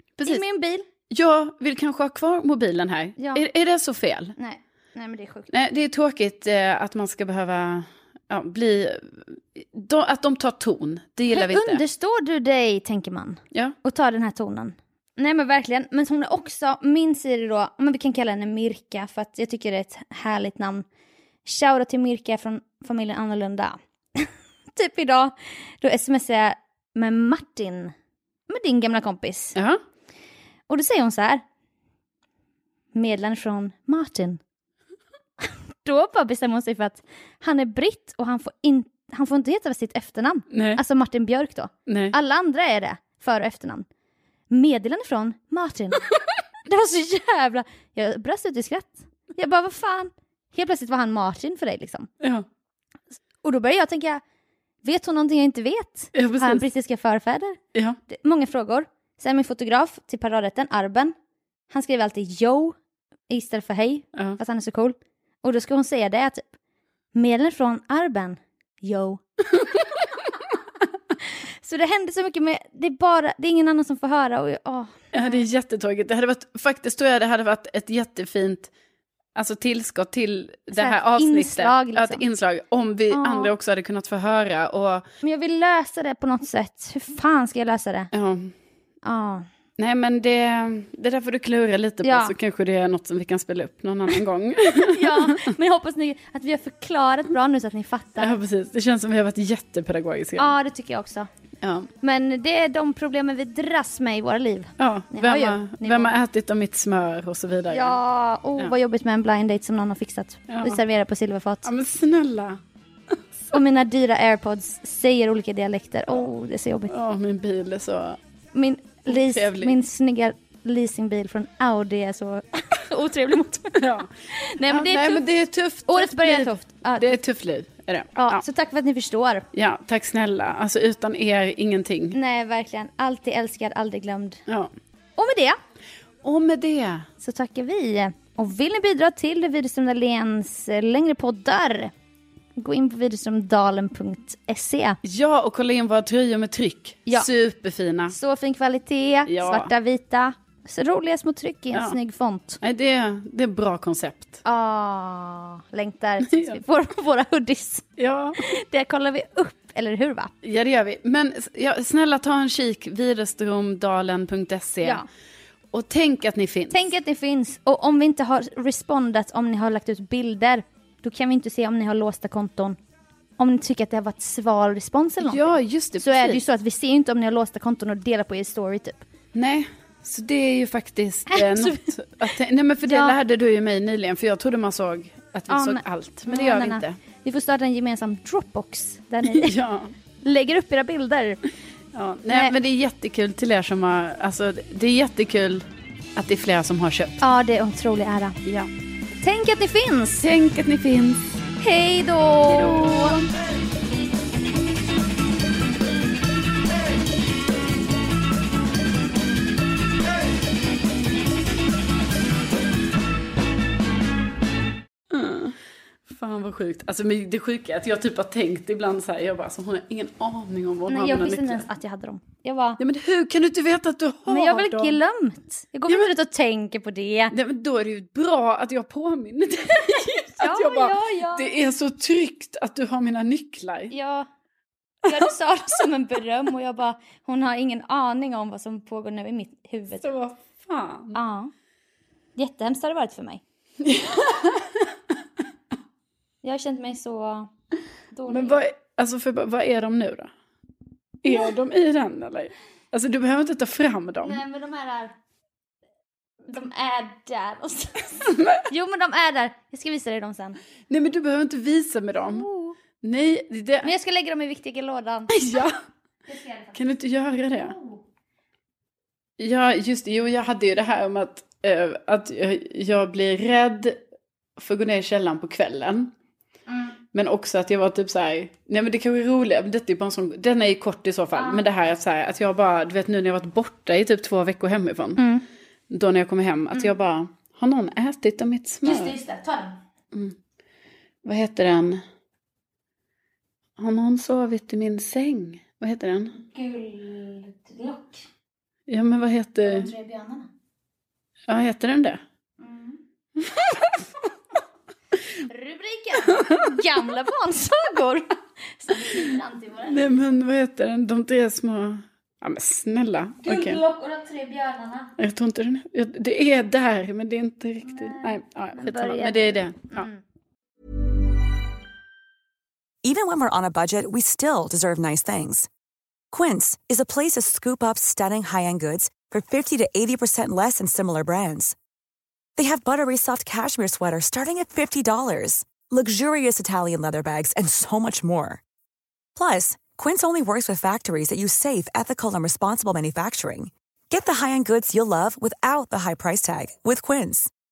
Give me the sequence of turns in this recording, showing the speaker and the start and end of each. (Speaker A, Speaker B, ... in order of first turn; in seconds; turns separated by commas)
Speaker A: 0.2-0.4, Speaker B: 0.2-0.8, Speaker A: 1.1-4.3, Speaker B: 3.2-3.4, Speaker B: 4.4-5.5, Speaker A: 5.5-11.8, Speaker B: 11.3-20.9, Speaker B: 21.4-27.9, Speaker B: 28.5-29.6, Speaker B: 30.7-31.4, Speaker B: 32.9-34.4, Speaker B: 35.4-43.9, Speaker A: 40.5-40.8, Speaker A: 41.9-42.1, Speaker B: 44.5-46.1, Speaker B: 46.7-52.1, Speaker B: 53.4-54.2, Speaker B: 54.8-61.1, Speaker A: 56.1-56.6, Speaker B: 61.7-62.8, Speaker B: 63.3-66.4, Speaker B: 67.1-69.2, Speaker B: 71.6-75.4, Speaker A: 75.1-78.7, Speaker A: 79.3-85.0, Speaker B: 80.7-82.2, Speaker B: 83.1-83.5, Speaker B: 85.2-88.1, Speaker A: 88.1-88.5, Speaker B: 89.0-89.5, Speaker A: 89.8-95.5, Speaker B: 92.0-92.3, Speaker B: 94.8-98.4, Speaker A: 98.2-100.5, Speaker B: 100.4-101.3, Speaker A: 101.6-101.9, Speaker B: 102.0-106.1, Speaker A: 104.8-108.0, Speaker B: 107.7-111.7, Speaker A: 110.5-110.8, Speaker A: 111.6-112.6, Speaker B: 113.5-116.9, Speaker A: 116.9-118.2, Speaker B: 118.5-125.2, Speaker A: 119.1-119.7, Speaker A: 123.8-124.0, Speaker A: 124.7-128.4, Speaker B: 125.9-127.1, Speaker B: 128.2-129.4, Speaker A: 129.5-132.1, Speaker B: 132.1-134.4, Speaker B: 135.2-135.6, Speaker A: 136.2-137.1, Speaker B: 137.2-141.9, Speaker B: 142.6-145.0, Speaker A: 145.0-148.1, Speaker B: 148.1-152.6, Speaker A: 149.3-149.7, Speaker A: 152.6-154.4, Speaker B: 154.4-157.8, Speaker A: 156.3-156.6, Speaker A: 158.0-158.4, Speaker B: 158.4-160.3, Speaker A: 160.4-165.0, Speaker A: 165.7-166.8, Speaker B: 166.7-172.8, Speaker B: 173.4-179.0, Speaker A: 175.2-176.4, Speaker A: 179.3-186.9, Speaker B: 181.3-181.9, Speaker B: 182.8-183.2, Speaker B: 185.5-189.6, Speaker A: 189.3-189.9, Speaker B: 190.2-191.4, Speaker A: 191.9-195.6, Speaker A: 196.2-197.2, Speaker B: 197.2-198.4, Speaker B: 199.2-200.2, Speaker A: 200.2-201.2, Speaker B: 201.6-203.2, Speaker A: 202.5-203.2, Speaker A: 215.1-215.6, Speaker A: 216.1-221.7, Speaker B: 220.9-222.8, Speaker A: 222.8-225.0, Speaker B: 224.3-227.3, Speaker A: 227.3-233.9, Speaker B: 230.4-231.5, Speaker B: 233.9-234.3, Speaker B: 235.0-240.0, Speaker A: 240.0-241.2, Speaker B: 241.1-241.5, Speaker B: 242.3-243.4, Speaker A: 243.8-244.9, Speaker B: 246.4-247.5, Speaker B: 248.1-248.6, Speaker A: 248.3-250.3, Speaker A: 251.2-254.4, Speaker B: 254.2-255.1, Speaker B: 256.5-260.6, Speaker A: 258.3-258.6, Speaker A: 260.9-262.4, Speaker B: 262.2-262.8, Speaker A: 263.0-263.9, Speaker B: 263.8-265.4, Speaker A: 265.3-265.8, Speaker B: 266.3-266.8, Speaker A: 266.7-267.7, Speaker B: 267.5-268.0, Speaker A: 269.4-274.0, Speaker A: 274.6-276.1, Speaker B: 276.7-276.9, Speaker A: 277.1-285.2, Speaker B: 281.3-281.6, Speaker B: 285.2-285.4, Speaker A: 285.9-289.1, Speaker B: 288.8-289.8, Speaker A: 291.2-292.0, Speaker A: 293.8-296.3, Speaker B: 296.3-298.2, Speaker A: 298.9-299.9, Speaker B: 299.6-300.5, Speaker A: 301.5-302.2, Speaker B: 302.6-303.0, Speaker A: 303.4-304.0, Speaker B: 305.5-310.2, Speaker A: 306.3-306.7, Speaker A: 309.9-313.8, Speaker B: 313.4-315.1, Speaker A: 315.2-320.1, Speaker B: 317.8-320.2, Speaker C: 323.0-325.7, Speaker C: 326.3-331.7, Speaker C: 332.6-338.6, Speaker C: 339.4-347.5